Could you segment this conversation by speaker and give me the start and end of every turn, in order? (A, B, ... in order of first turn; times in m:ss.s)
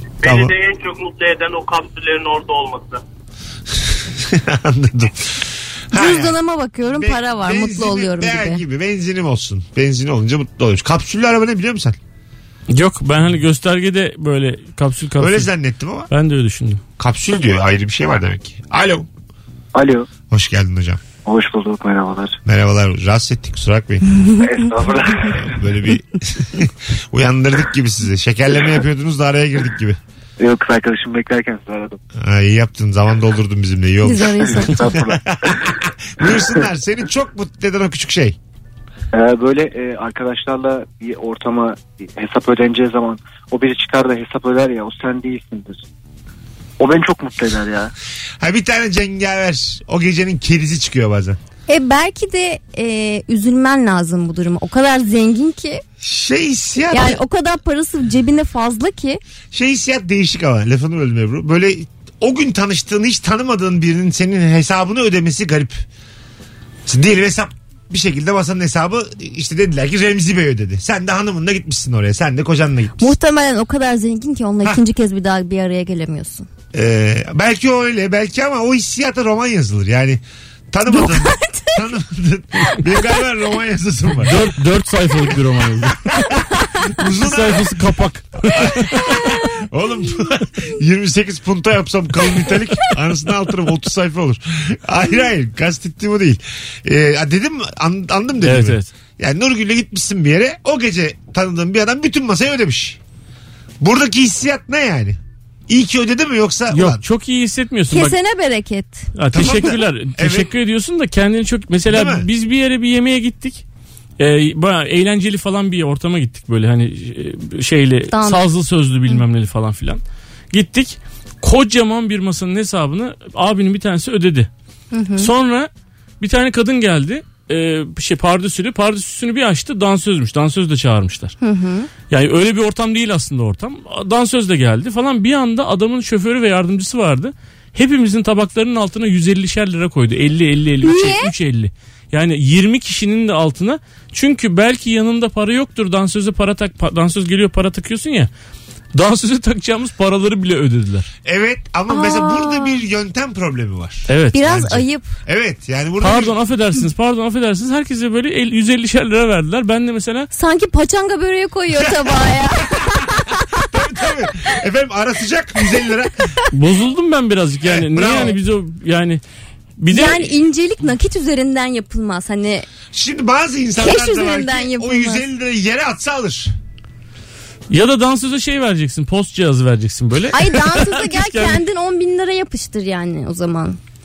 0:00.2-0:03.0 A
0:00.2-0:00.5 B
0:04.1-0:06.4 B
0:05.9-0:08.6 C
0:06.9-0:12.0 B
0:12.7-0:15.5 D
0:15.2-0:16.1 B
0:16.1-0:16.8 D
0:17.0-0:19.1 B
0:19.7-0:20.1 E
0:20.3-0:21.0 B
0:21.2-0:22.4 E
0:22.4-0:24.0 B
0:24.1-0:24.4 C
0:24.4-0:25.7 E
0:25.3-0:30.0 B
0:30.4-0:32.0 E
0:32.2-0:38.4 B
0:34.0-0:34.9 C
0:34.5-0:35.7 E
0:39.1-0:45.8 E
0:46.8-0:47.9 E
0:48.4-0:51.4 B
0:51.7-0:55.8 C
0:56.0-0:57.2 B
0:56.9-0:59.2 C
0:59.5-1:05.8 B
1:06.9-1:13.1 B
1:13.0-1:16.5 C
1:16.7-1:24.4 B
1:20.9-1:21.8 C
1:24.2-1:26.0 D
1:26.2-1:26.8 C
1:26.9-1:27.8 B
1:27.2-1:28.9 D
1:28.5-1:43.0 B
1:28.9-1:29.4 C
1:38.4-1:38.9 D
1:43.8-1:47.0 B
1:46.7-1:48.2 D
1:47.9-1:49.1 C
1:49.2-1:53.6 D
1:49.3-1:50.5 B
1:51.9-1:52.3 B
1:54.2-2:00.0 D
1:58.1-1:58.4 C
2:00.5-2:04.5 D
2:04.9-2:05.3 C
2:05.2-2:05.7 D
2:06.2-2:11.4 D
2:11.4-2:11.9 C
2:12.1-2:28.3 D
2:20.8-2:21.3 C
2:29.0-2:31.1 D
2:31.2-2:36.4 B
2:31.9-2:32.8 C
2:34.1-2:34.5 D
2:34.3-2:35.1 C
2:36.0-2:40.3 D
2:40.3-2:43.6 C
2:41.8-2:46.4 B
2:46.5-2:49.2 D
2:47.6-2:48.4 B
2:49.8-2:50.3 D
2:49.9-2:52.7 C
2:52.9-2:56.5 B
2:53.8-2:55.2 C
2:57.7-3:01.6 D
3:00.3-3:03.8 C